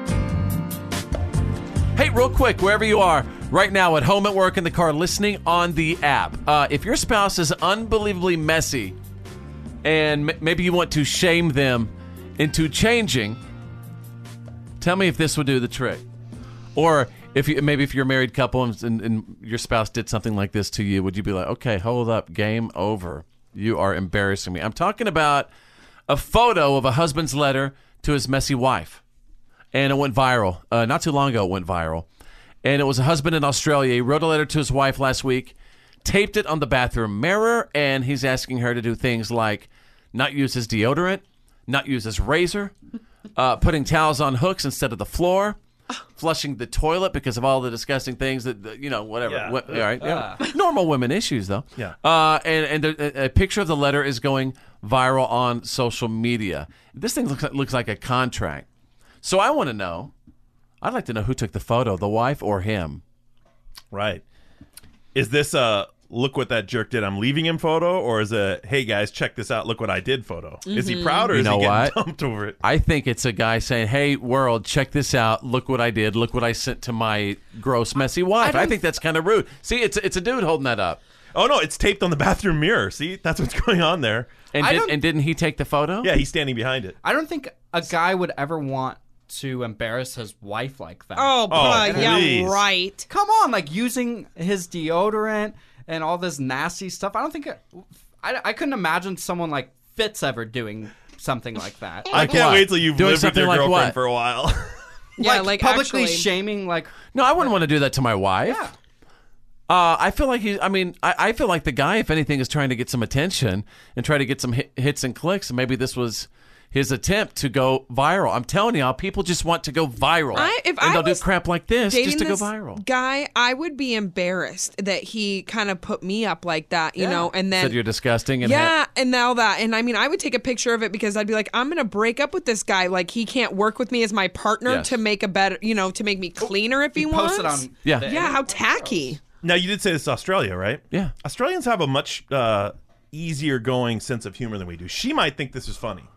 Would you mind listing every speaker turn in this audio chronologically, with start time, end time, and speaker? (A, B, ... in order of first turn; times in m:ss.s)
0:02.0-0:09.0 A
0:09.8-0:13.4 A
0:14.8-0:16.0 A
0:16.7-0:25.5 A
0:26.1-0:29.0 A
0:29.7-0:32.0 A
0:32.6-0:42.7 A
0:43.4-0:45.6 A
0:46.2-0:58.6 A
0:49.2-0:50.0 B
0:50.0-0:50.4 C
0:59.2-1:00.1 A
1:00.8-1:03.0 A
1:03.9-1:04.2 B
1:05.1-1:12.6 B
1:10.6-1:11.3 D
1:11.3-1:12.0 A
1:12.6-1:21.0 A
1:18.4-1:18.7 D
1:21.3-1:24.3 B
1:24.5-1:26.1 A
1:24.6-1:25.0 C
1:26.0-1:27.0 B
1:27.0-1:32.3 C
1:31.2-1:33.1 D
1:31.5-1:32.6 B
1:33.1-1:42.4 C
1:42.1-1:44.0 A
1:42.1-1:44.8 B
1:45.2-1:46.3 D
1:45.2-1:47.5 C
1:47.1-1:48.6 A
1:48.4-1:48.7 C
1:49.7-2:02.8 A
2:00.3-2:01.2 D
2:01.8-2:07.8 D
2:07.0-2:07.3 C
2:07.5-2:08.7 A
2:08.4-2:19.2 D
2:14.6-2:15.0 A
2:16.4-2:19.1 C
2:19.4-2:26.1 B